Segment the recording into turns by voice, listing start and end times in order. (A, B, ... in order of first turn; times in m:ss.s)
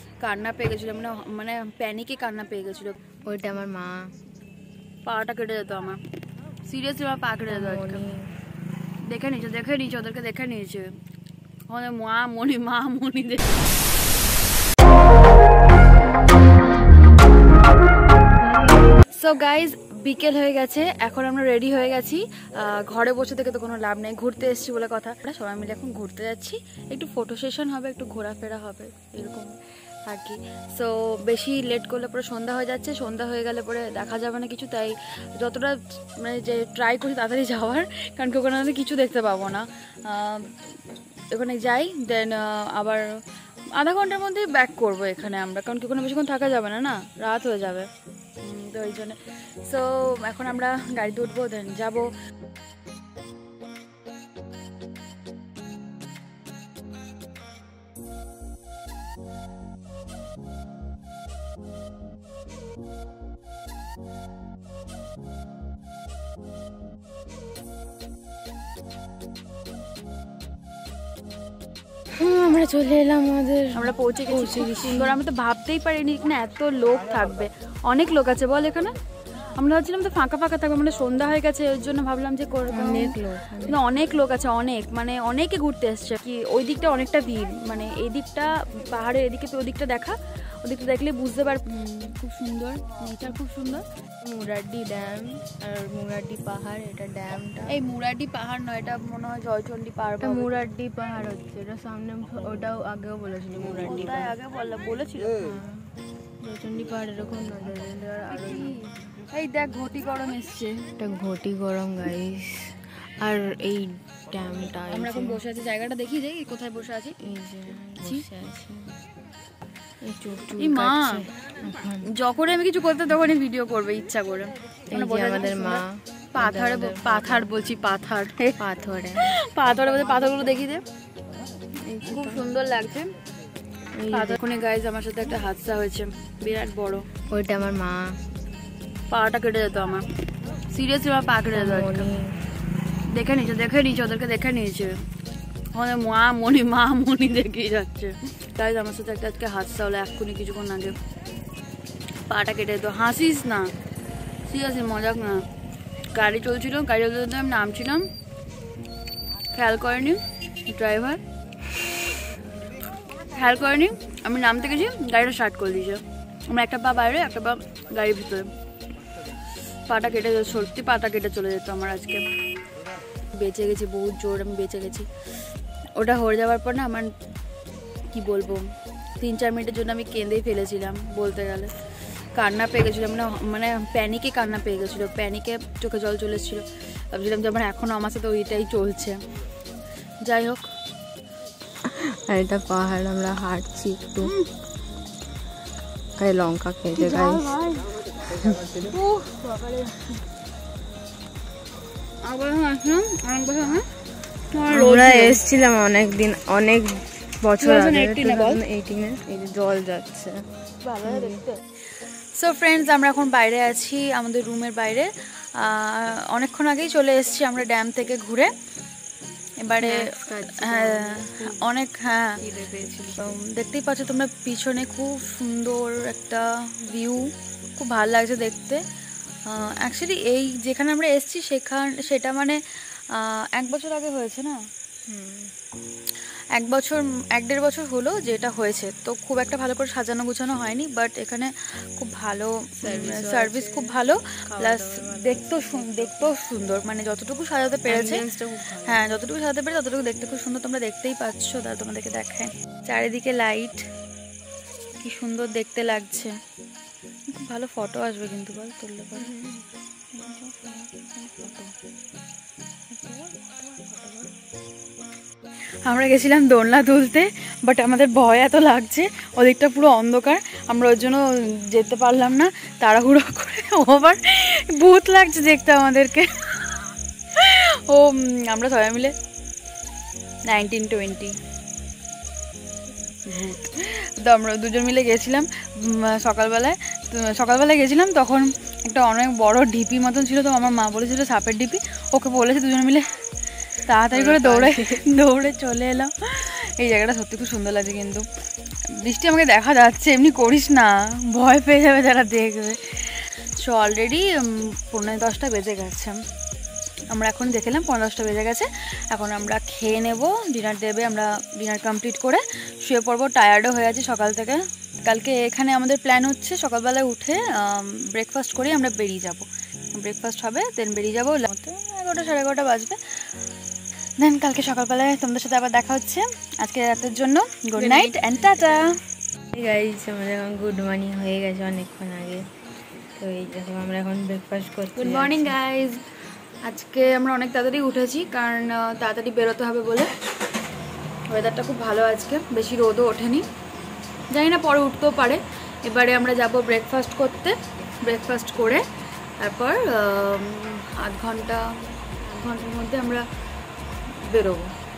0:00.2-0:03.0 A
0:03.2-0:04.1 B
0:05.0-0:06.0 A
0:06.6-0:08.0 A
0:07.5-0:08.3 B
0:09.1-0:10.9 A
0:11.7-0:13.7 A
0:19.1-0:40.7 A
0:41.3-0:43.1 A
0:43.7-0:47.9 A
0:48.4-0:52.1 A
1:12.2-1:15.2 B
1:13.7-1:18.9 A
1:19.6-1:33.8 A
1:22.7-1:23.8 B
1:34.2-1:37.8 B
1:37.6-1:40.6 A
1:40.2-1:44.3 B
1:43.5-1:45.4 A
1:45.4-1:45.9 B
1:46.4-1:49.0 B
1:48.3-1:48.8 A
1:49.3-1:50.9 A
1:51.0-1:55.4 B
1:54.9-1:57.2 A
1:57.2-1:59.0 B
1:58.0-1:58.2 A
2:00.0-2:02.1 B
2:00.5-2:01.2 A
2:02.1-2:08.6 A
2:04.9-2:07.5 B
2:08.6-2:09.3 B
2:09.2-2:10.8 A
2:11.8-2:12.4 B
2:12.1-2:13.1 A
2:13.9-2:14.4 B
2:14.1-2:17.1 A
2:17.3-2:18.2 B
2:19.1-2:20.1 A
2:20.7-2:22.1 A
2:21.5-2:22.4 B
2:23.1-2:25.0 A
2:25.7-2:31.0 A
2:32.3-2:33.7 A
2:34.4-2:35.5 A
2:36.1-2:38.1 A
2:39.5-2:41.2 A
2:43.2-2:48.5 A
2:49.9-2:52.2 A
2:53.3-2:55.1 A
2:56.0-2:57.1 A
2:58.1-2:58.7 A
2:59.2-3:01.7 A
3:02.3-3:09.2 A
3:10.2-3:10.6 A
3:11.8-3:14.3 B
3:14.2-3:14.5 A
3:16.2-3:17.6 B
3:16.9-3:17.9 A
3:18.7-3:20.1 A
3:22.2-3:23.8 A
3:24.5-3:25.4 A
3:24.6-3:30.4 B
3:27.6-3:28.6 A
3:30.8-3:31.5 A
3:31.0-3:31.4 B
3:32.3-3:38.5 A
3:39.6-3:42.4 A
3:39.8-3:41.7 B
3:42.4-3:43.4 B
3:43.1-3:48.8 A
3:49.4-3:54.6 A
3:55.1-3:55.5 B
3:56.5-4:13.8 A
4:02.8-4:06.3 B
4:07.9-4:09.1 B
4:15.0-4:16.3 A
4:17.3-4:19.5 A
4:19.2-4:19.6 B
4:20.1-4:21.7 A
4:22.9-4:24.3 A
4:25.8-4:39.1 A
4:40.5-4:41.4 A
4:43.2-4:53.2 A
4:53.8-4:58.2 A
4:54.1-4:55.0 B
4:59.0-5:06.2 A
5:07.1-5:23.0 A
5:24.2-5:28.9 A
5:27.8-5:28.9 B
5:29.5-5:32.4 B
5:33.2-5:35.6 B
5:34.9-5:36.0 A
5:36.6-5:40.1 A
5:41.3-5:43.4 A
5:44.3-5:48.8 A
5:49.4-5:51.7 A
5:52.2-5:53.2 A
5:54.1-5:54.7 A